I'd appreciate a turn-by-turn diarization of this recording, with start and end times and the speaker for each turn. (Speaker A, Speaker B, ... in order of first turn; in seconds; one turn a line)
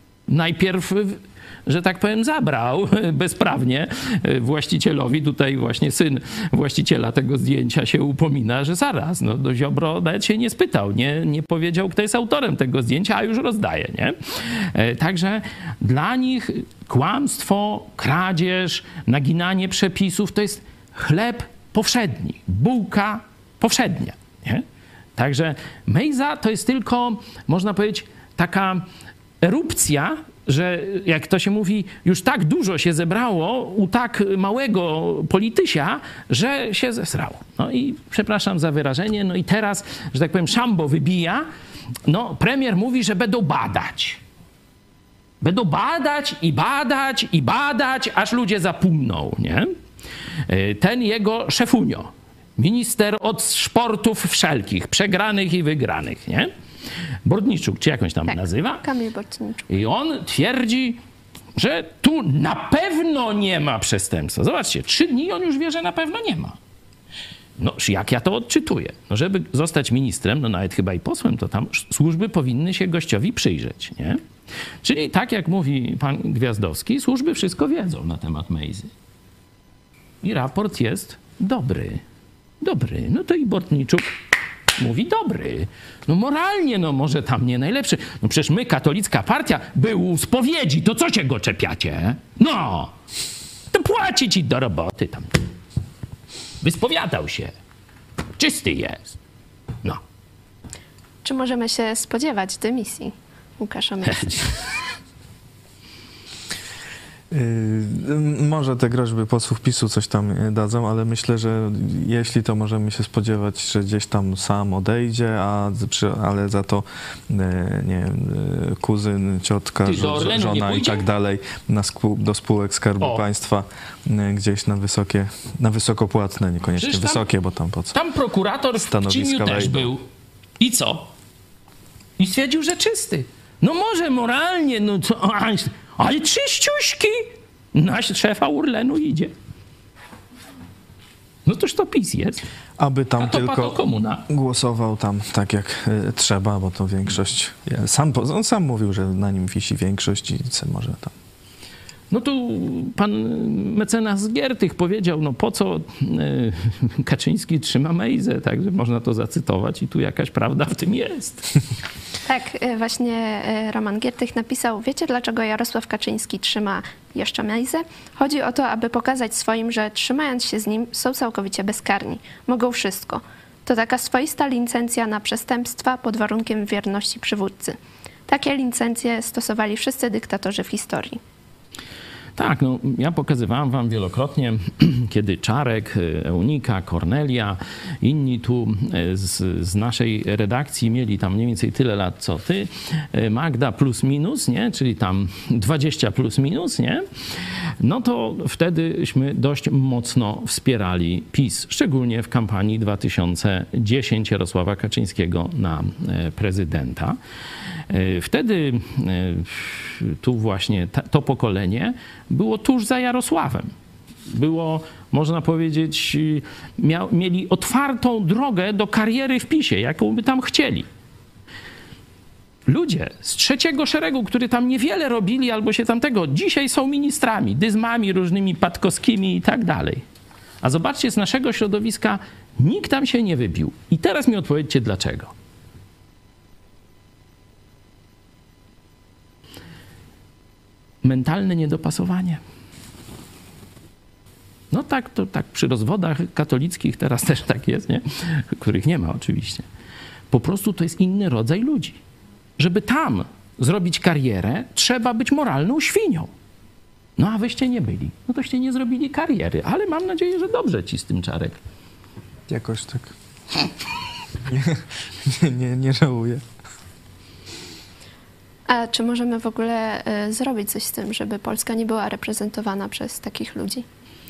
Speaker A: 0.3-24.6
Speaker A: 25.2-28.9
Speaker A: 29.4-41.5
Speaker A: 42.1-44.2
Speaker A: 45.4-49.7
Speaker A: 50.5-56.5
Speaker A: 57.2-58.8
Speaker B: 58.3-59.7
Speaker A: 59.7-61.0
Speaker A: 61.6-66.6
Speaker A: 67.6-74.2
Speaker A: 74.8-78.9
Speaker A: 80.2-82.0
Speaker A: 82.6-84.1
Speaker A: 84.8-92.9
Speaker A: 93.7-95.3
Speaker A: 96.6-97.5
Speaker A: 98.4-99.2
Speaker B: 101.2-104.5
Speaker A: 104.0-104.5
Speaker C: 107.3-128.0
Speaker A: 119.8-121.1
Speaker A: 126.8-127.2
Speaker A: 127.9-130.1
Speaker C: 128.8-129.9
Speaker A: 130.6-131.1
Speaker A: 132.2-139.3
Speaker A: 141.5-142.4
Speaker C: 142.8-151.2
Speaker A: 143.2-144.3
Speaker A: 152.1-161.5
Speaker B: 162.2-181.2
Speaker A: 182.4-207.2
Speaker A: 207.9-213.7
Speaker A: 214.3-220.9
Speaker A: 222.7-230.0
Speaker A: 230.6-235.3
Speaker A: 241.0-242.4
Speaker A: 244.7-249.7
Speaker A: 250.3-252.0
Speaker A: 252.6-256.3
Speaker A: 257.2-261.6
Speaker C: 262.5-263.1
Speaker C: 264.5-266.4
Speaker B: 268.7-273.9